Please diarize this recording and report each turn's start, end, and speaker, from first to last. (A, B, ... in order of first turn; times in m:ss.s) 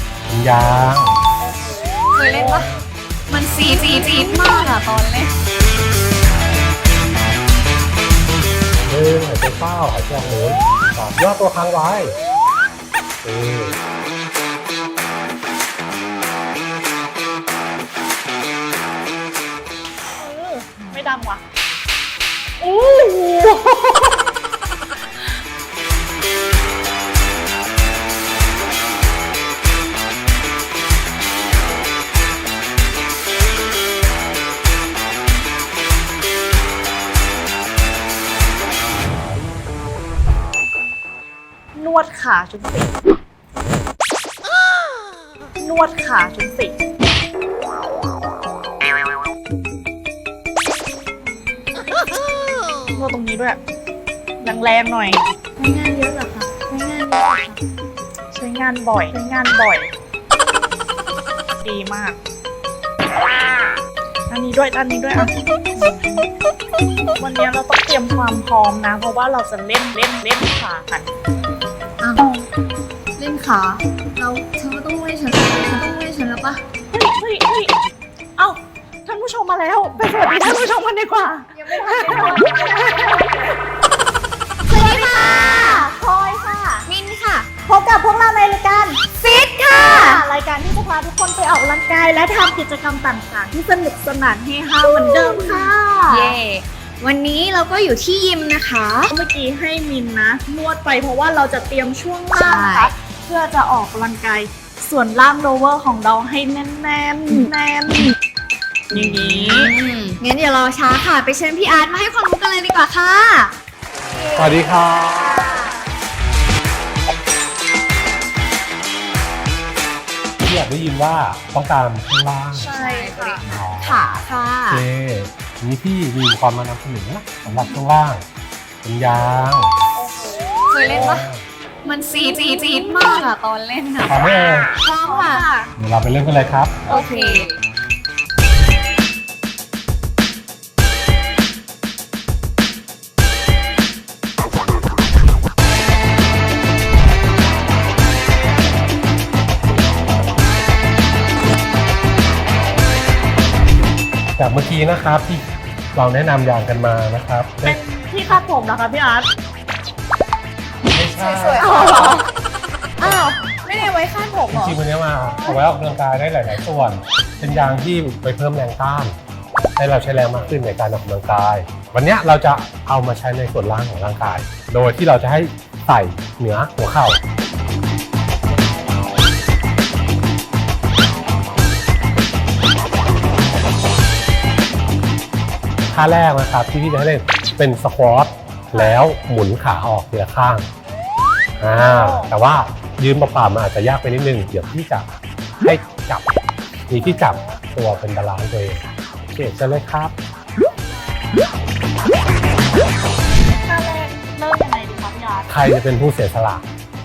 0:00.3-0:01.2 A
0:01.4-0:02.0 B
0:02.1-0:02.7 C
0:02.3-0:02.9 A
0:03.3-0:05.3 C
0:03.7-0:04.8 B
0:08.9-0:12.2 A
0:13.2-0:13.8 A
0:20.2-0:21.4 B
0:22.6-0:23.6 B
0:41.8-0:43.0 B
0:45.6-0:46.8 B
0:53.0-0:53.6 B
0:54.4-0:55.2 B
0:55.6-0:57.6 C
0:58.3-0:59.9 B
1:01.6-1:02.2 B
1:04.3-1:05.8 B
1:05.8-1:06.2 C
1:07.2-1:11.1 B
1:12.0-1:12.4 C
1:13.2-1:16.6 C
1:16.9-1:17.7 B
1:18.4-1:23.6 B
1:21.5-1:23.2 C
1:24.7-1:25.9 C
1:24.7-1:26.9 B
1:26.9-1:27.5 C
1:27.6-1:29.0 B
1:29.2-1:30.3 C
1:29.7-1:36.4 B
1:34.8-1:39.1 C
1:39.1-1:48.2 B
1:42.3-1:42.9 C
1:48.9-1:49.7 B
1:48.9-1:53.5 C
1:54.1-1:55.8 C
1:54.4-1:55.5 A
1:55.2-1:55.9 B
2:00.4-2:02.8 A
2:02.6-2:03.4 B
2:02.7-2:04.8 C
2:03.4-2:04.1 A
2:04.7-2:08.2 A
2:07.5-2:07.8 C
2:08.8-2:09.7 A
2:10.0-2:11.2 B
2:10.7-2:11.3 C
2:10.8-2:11.5 A
2:11.8-2:14.2 C
2:14.1-2:14.7 A
2:14.8-2:15.5 C
2:15.0-2:15.7 B
2:15.8-2:16.9 A
2:16.9-2:17.6 C
2:16.9-2:17.5 B
2:34.4-2:38.4 A
2:37.6-2:39.3 B
2:40.9-2:42.2 A
2:41.2-2:42.2 C
2:41.6-2:42.3 B
2:43.0-2:44.8 C
2:43.0-2:43.8 A
2:44.5-2:49.2 A
2:45.2-2:45.6 B
2:49.8-2:57.2 A
3:05.9-3:10.6 A
3:08.7-3:09.0 B
3:11.6-3:15.1 A
3:11.6-3:12.3 B
3:15.6-3:16.3 A
3:16.9-3:20.2 A
3:16.9-3:17.6 B
3:20.9-3:21.5 B
3:23.6-3:25.5 B
3:25.5-3:26.6 A